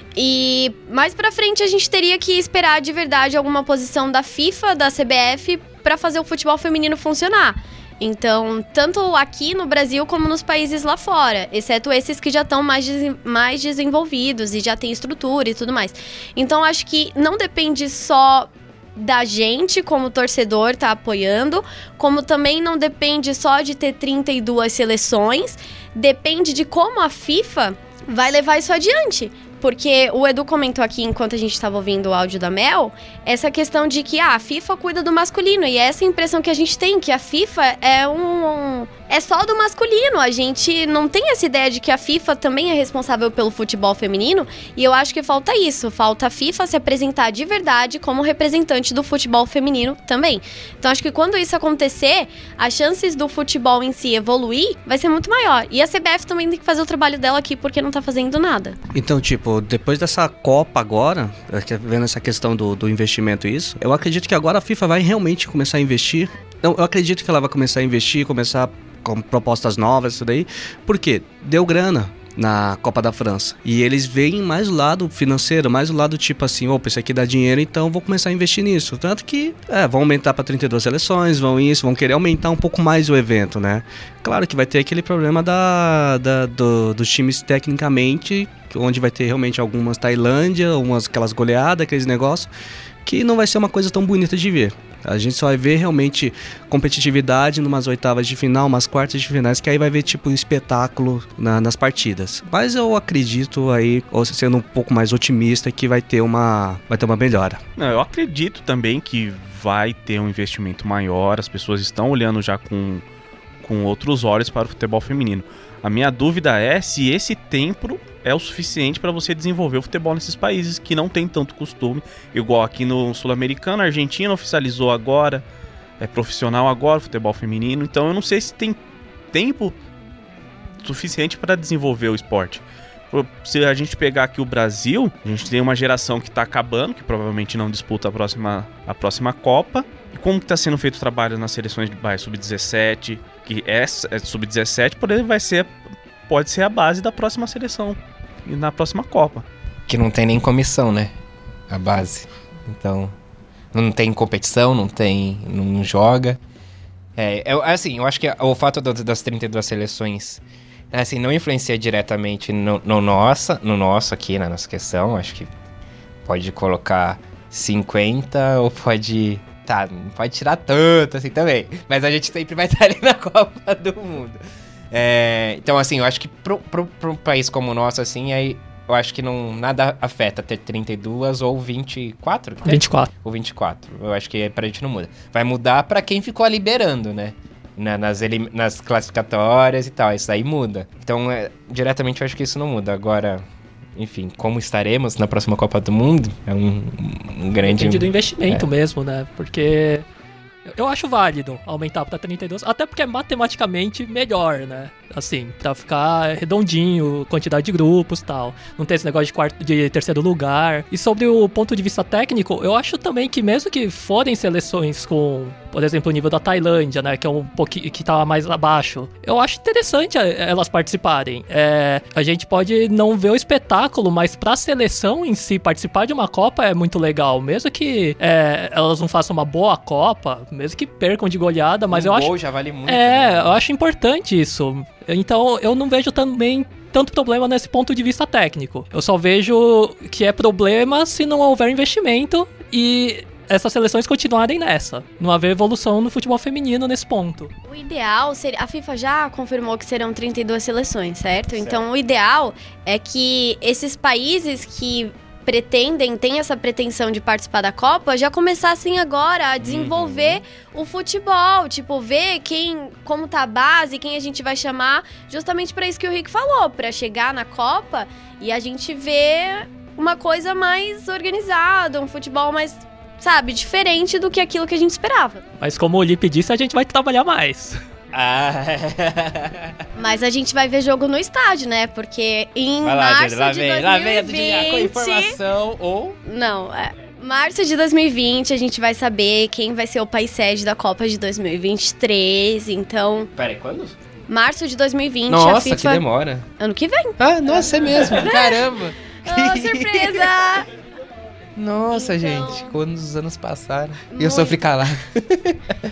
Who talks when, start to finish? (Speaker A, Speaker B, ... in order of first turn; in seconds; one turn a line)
Speaker A: 0.1-58.8
Speaker B: 58.9-92.5
Speaker B: 93.0-107.6
Speaker C: 107.8-113.0
Speaker C: 113.6-125.4
Speaker C: 126.0-128.8
Speaker C: 129.3-129.8
Speaker C: 130.8-145.8
Speaker C: 146.3-149.4
Speaker D: 149.9-151.1
Speaker D: 151.7-153.1
Speaker D: 153.7-156.4
Speaker D: 157.2-165.5
Speaker D: 166.2-174.4
Speaker D: 174.9-193.4
Speaker E: 182.6-183.1
Speaker D: 194.0-198.7
Speaker E: 197.6-200.0
Speaker E: 200.7-232.3
Speaker D: 231.9-233.6
Speaker E: 232.9-247.5
Speaker A: 247.6-275.4
Speaker D: 251.5-251.8
Speaker D: 259.6-260.4
Speaker E: 275.6-277.8
Speaker D: 278.1-279.7
Speaker A: 279.9-285.4
Speaker D: 282.8-286.2
Speaker A: 286.2-293.3
Speaker D: 293.4-293.9
Speaker A: 294.3-296.0
Speaker D: 295.3-296.4
Speaker A: 296.6-298.7
Speaker D: 297.2-300.2
Speaker A: 299.2-300.7
Speaker D: 301.6-305.6
Speaker A: 301.9-302.7
Speaker A: 304.1-304.6